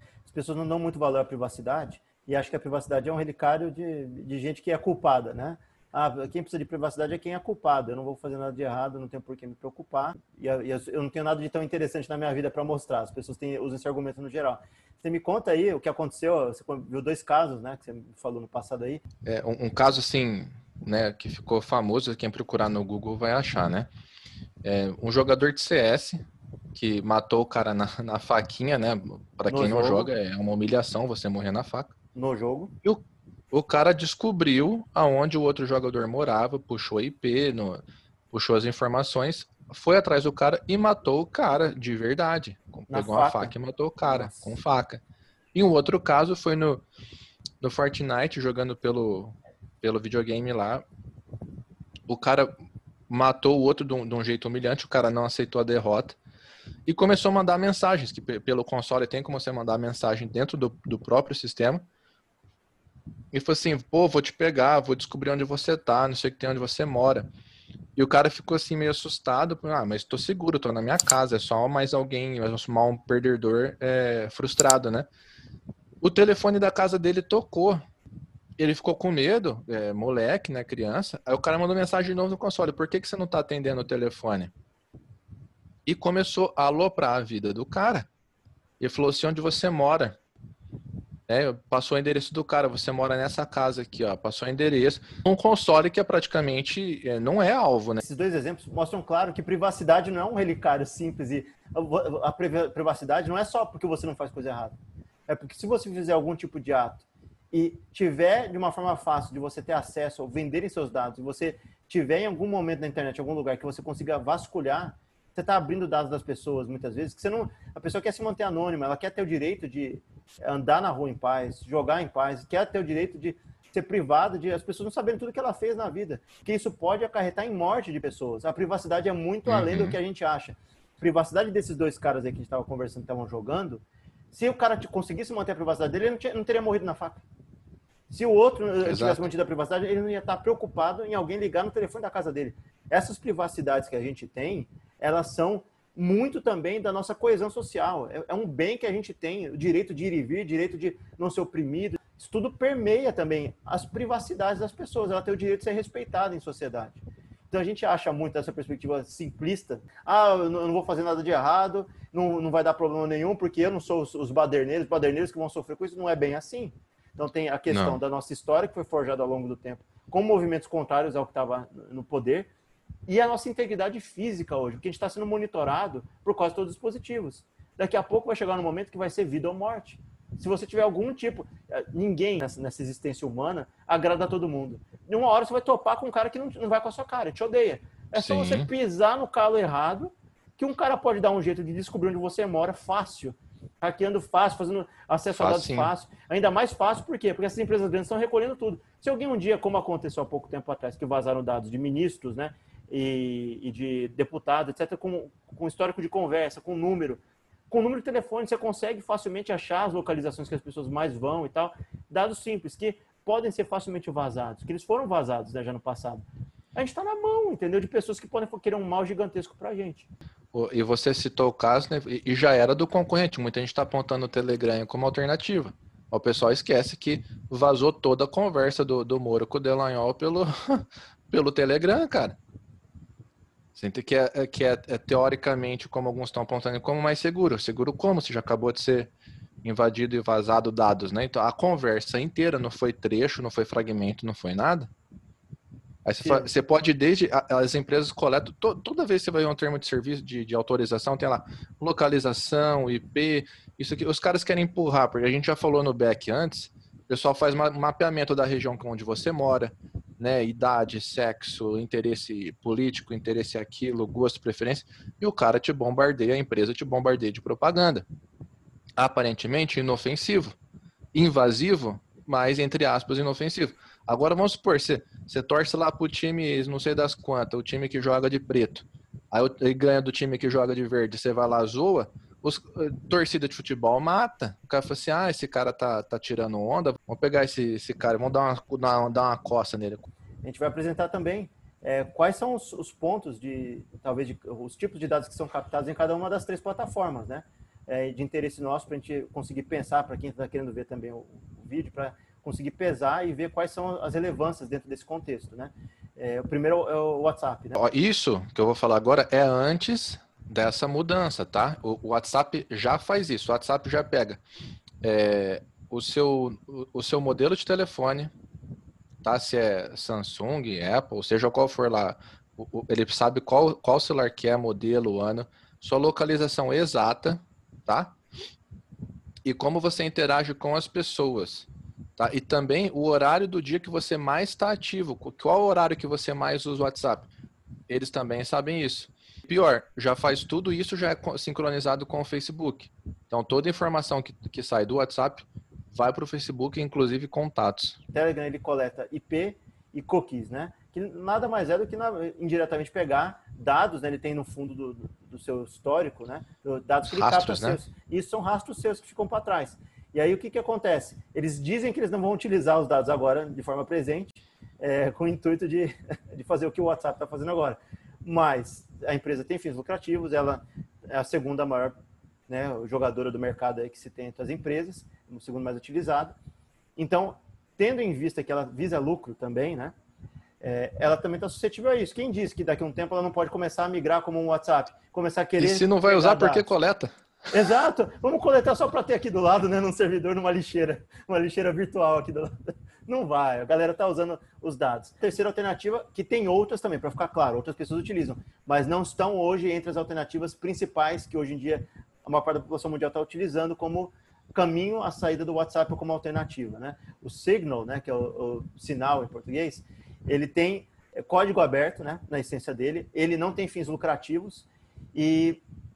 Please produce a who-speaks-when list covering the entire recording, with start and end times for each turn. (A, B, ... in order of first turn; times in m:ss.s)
0:00.2-0:19.0 A
0:19.2-0:23.9 B
0:24.6-0:31.9 B
0:29.5-0:30.1 A
0:32.1-0:32.7 A
0:32.8-0:45.0 B
0:42.9-0:44.6 A
0:45.5-0:46.8 B
0:47.6-0:50.8 B
0:52.1-0:52.5 B
0:53.1-0:56.2 B
0:56.8-1:01.8 B
1:03.3-1:07.3 B
1:08.0-1:15.1 B
1:16.0-1:17.8 B
1:18.6-1:24.5 B
1:25.8-1:28.1 B
1:28.8-1:30.2 B
1:31.3-1:38.0 B
1:38.0-1:44.8 A
1:45.3-2:17.2 A
2:09.5-2:10.0 B
2:18.1-2:52.5 A
2:18.8-2:19.3 B
2:47.7-2:48.0 B
2:53.1-3:36.2 A
3:08.1-3:08.7 B
3:15.4-3:15.9 B
3:36.7-3:40.1 A
3:40.5-3:52.4 B
3:53.7-3:59.1 B
3:59.6-4:04.9 B
4:06.0-4:28.0 B
4:06.2-4:06.5 A
4:29.0-4:30.6 B
4:31.1-4:50.1 B
4:50.4-5:07.8 A
5:07.8-5:14.4 B
5:15.0-5:18.3 B
5:19.2-5:28.2 B
5:29.4-5:37.3 B
5:37.9-5:48.0 B
5:48.1-6:12.0 A
5:57.1-5:57.8 B
6:12.5-6:16.4 A
6:17.0-6:19.9 A
6:20.6-6:26.6 A
6:25.6-6:27.1 B
6:27.5-6:32.5 A
6:33.0-6:55.6 A